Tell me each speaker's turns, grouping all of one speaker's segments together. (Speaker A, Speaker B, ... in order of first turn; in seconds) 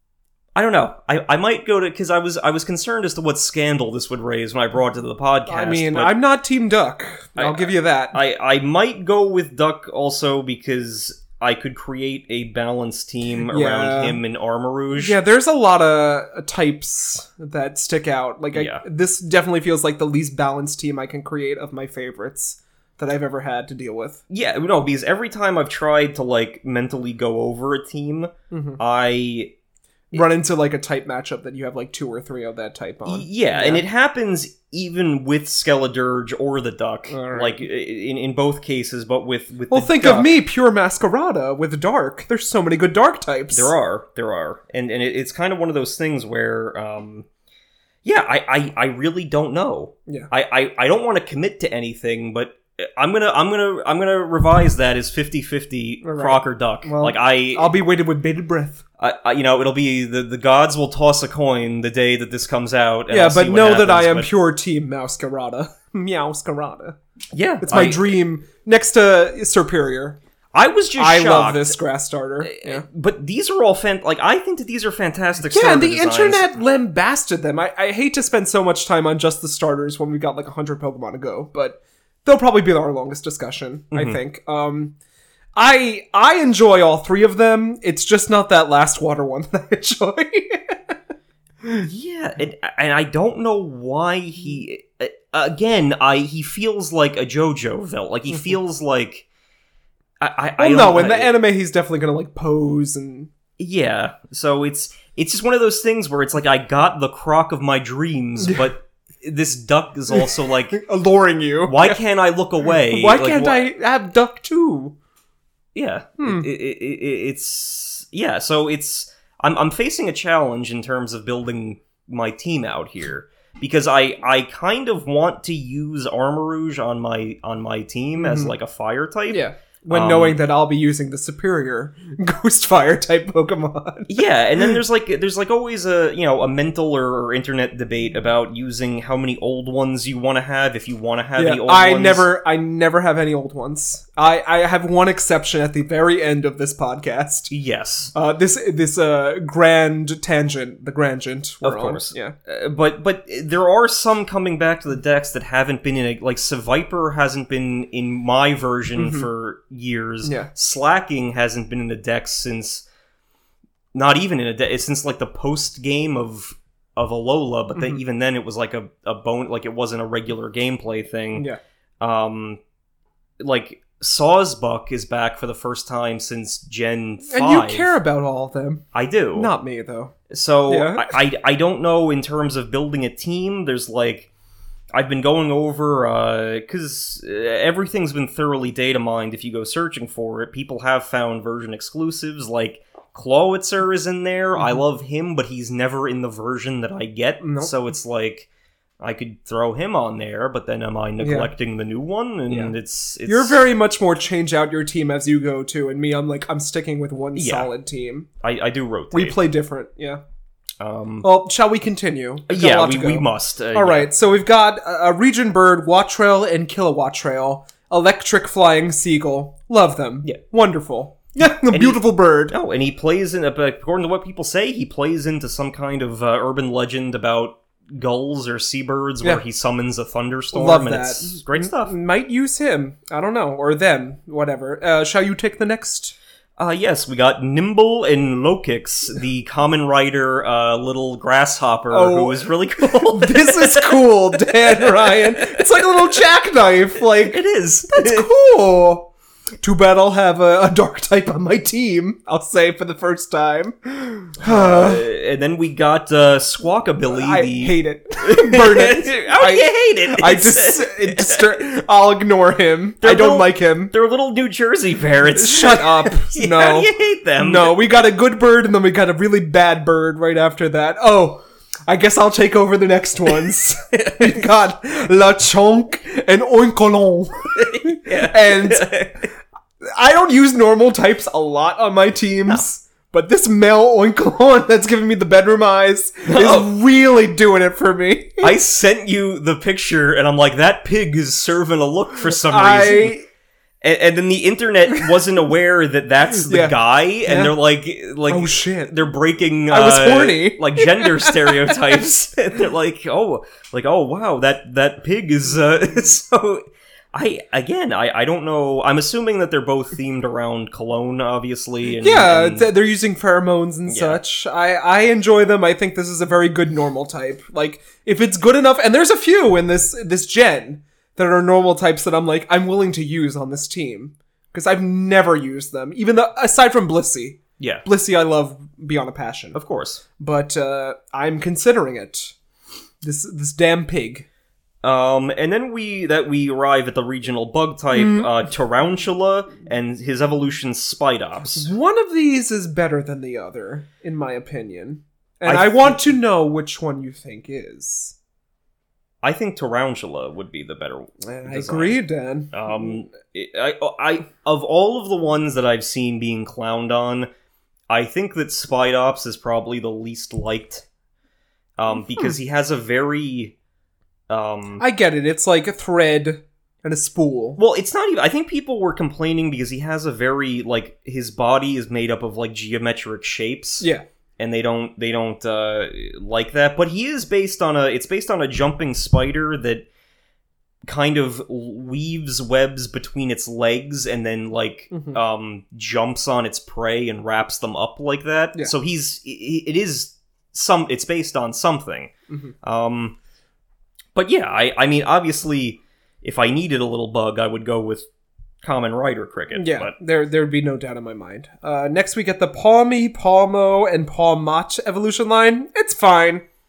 Speaker A: 0.6-6.2, 7.4-15.2, 18.5-18.8, 24.3-29.5, 33.1-40.3, 43.5-47.3, 48.0-57.7, 59.0-64.3, 67.3-68.0, 70.5-71.8, 72.4-76.5, 83.9-84.2, 91.9-99.3, 100.2-101.3, 103.6-110.8, 111.7-113.7, 115.7-130.4, 134.1-142.3, 147.5-148.1, 151.6-162.8, 163.9-171.5, 172.0-172.6, 173.4-177.9, 178.9-179.5, 180.3-184.3, 184.9-198.5, 199.0-203.6, 207.3-207.7, 208.4-209.4, 210.8-211.3, 212.5-214.1, 221.5-231.9, 236.6-245.9, 247.1-248.3, 254.4-261.6, 263.0-267.8, 273.9-274.4, 277.6-279.3, 286.3-286.7, 288.4-293.2, 293.8-312.7, 313.9-314.2, 327.6-327.9, 329.6-330.0, 334.8-341.7, 345.4-346.1, 349.2-357.3, 357.9-360.9, 361.8-363.5, 364.3-364.8, 367.6-373.9, 374.4-379.9, 380.9-393.2, 394.1-398.1, 398.6-399.9
Speaker B: 5.5-8.2, 13.5-14.2, 14.9-24.2, 28.5-28.8, 30.1-33.8, 37.1-37.6, 39.7-43.7, 56.0-58.8, 63.1-67.0, 67.6-70.2, 71.0-72.8, 75.4-85.0, 85.6-90.9, 91.6-91.9, 100.6-103.3, 108.4-108.7, 110.1-112.0, 112.8-115.0, 116.2-116.5, 128.2-128.5, 129.3-134.8, 141.4-147.5, 148.1-152.3, 159.0-159.3, 160.2-160.5, 167.8-168.0, 177.3-180.1, 180.7-181.1, 194.6-194.8, 197.4-197.7, 201.2-201.5, 202.5-202.7, 203.2-208.3, 209.1-210.2, 211.2-222.6, 230.5-236.2, 241.9-249.1, 249.6-255.1, 257.1-263.9, 265.3-279.0, 279.8-288.5, 292.3-293.2, 296.5-297.5, 298.3-299.0, 299.7-301.8, 312.0-329.6, 330.2-332.4, 333.0-334.3, 337.9-338.3, 341.5-348.1, 351.2-352.9, 364.8-367.6, 384.9-385.2, 392.3-392.5, 399.5-406.4